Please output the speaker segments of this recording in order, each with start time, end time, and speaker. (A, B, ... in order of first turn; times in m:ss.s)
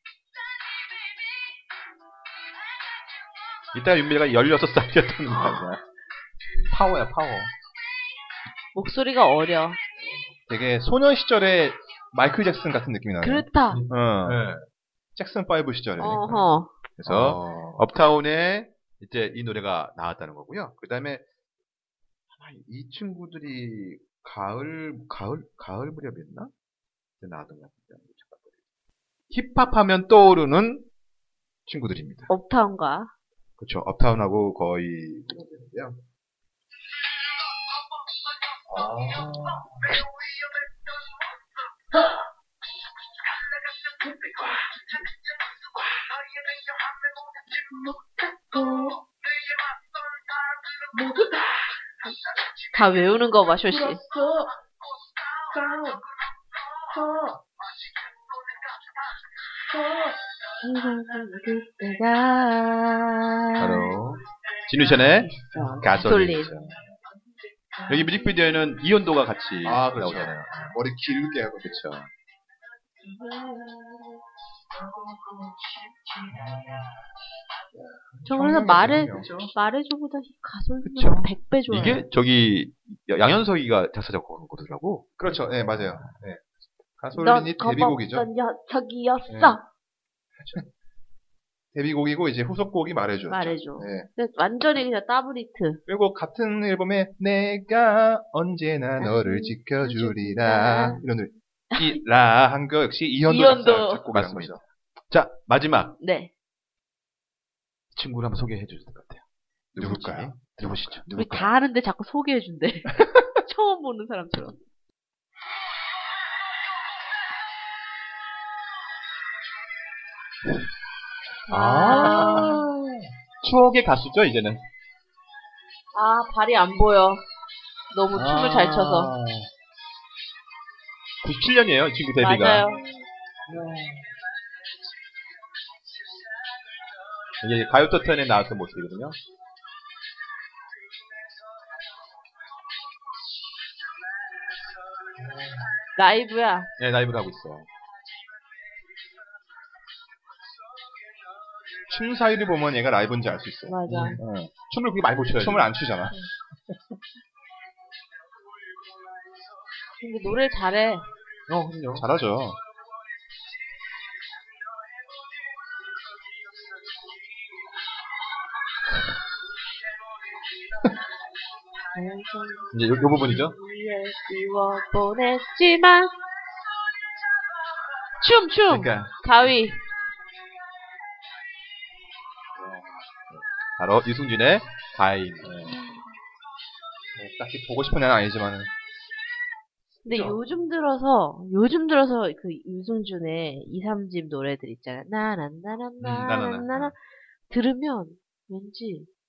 0:03.7-0:05.8 A
0:06.7-0:07.5 A
0:08.7-0:09.8 B
0:10.5-0:14.4 C
0:13.2-0:13.8 B
0:13.7-0:14.6 A
0:15.2-0:16.5 C
0:16.0-0:16.7 B
0:17.0-0:21.2 A
0:17.0-0:17.8 C
0:22.3-0:26.5 A
0:27.2-0:28.5 A
0:29.3-0:30.9 A
0:31.7-0:32.3 A
0:32.3-0:33.1 B
0:33.6-0:36.0 A
0:38.7-0:39.9 C
0:47.8-0:49.0 B
0:52.6-0:54.1 B
0:59.7-1:03.9 B
1:03.6-1:06.8 A
1:05.2-1:06.5 B
1:07.9-1:10.7 A
1:09.6-1:11.8 C
1:11.6-1:12.1 A
1:13.0-1:14.1 B
1:18.1-1:19.4 C
1:18.2-1:22.0 B
1:19.1-1:19.5 A
1:20.9-1:26.1 A
1:25.2-1:26.4 C
1:27.0-1:28.3 C
1:27.1-1:29.6 B
1:29.3-1:29.6 C
1:31.7-1:34.1 C
1:33.3-1:35.8 B
1:35.9-1:44.6 C
1:39.0-1:41.0 B
1:41.7-1:42.0 B
1:43.2-1:44.0 B
1:44.1-1:46.0 A
1:46.0-1:46.3 B
1:47.9-1:51.1 A
1:49.8-1:51.5 C
1:51.1-1:54.6 B
2:01.5-2:02.6 B
2:01.5-2:03.0 C
2:01.8-2:02.6 A
2:03.4-2:04.6 A
2:05.9-2:07.2 B
2:07.9-2:09.1 B
2:08.1-2:09.5 C
2:11.2-2:12.7 A
2:12.2-2:12.8 B
2:13.5-2:14.1 C
2:17.4-2:19.2 A
2:26.0-2:26.7 B
2:26.8-2:27.7 A
2:31.9-2:34.5 C
2:33.7-2:34.2 B
2:33.9-2:35.7 A
2:35.3-2:36.1 C
2:40.0-2:41.1 B
2:41.5-2:42.1 A
2:42.0-2:42.6 C
2:51.9-2:56.1 B
2:52.7-2:53.5 A
2:58.2-2:59.8 B
2:58.7-2:59.5 A
3:03.3-3:05.7 A
3:05.4-3:05.8 C
3:07.2-3:08.7 C
3:10.0-3:10.4 C
3:10.0-3:17.0 B
3:16.0-3:16.9 A
3:17.5-3:19.1 B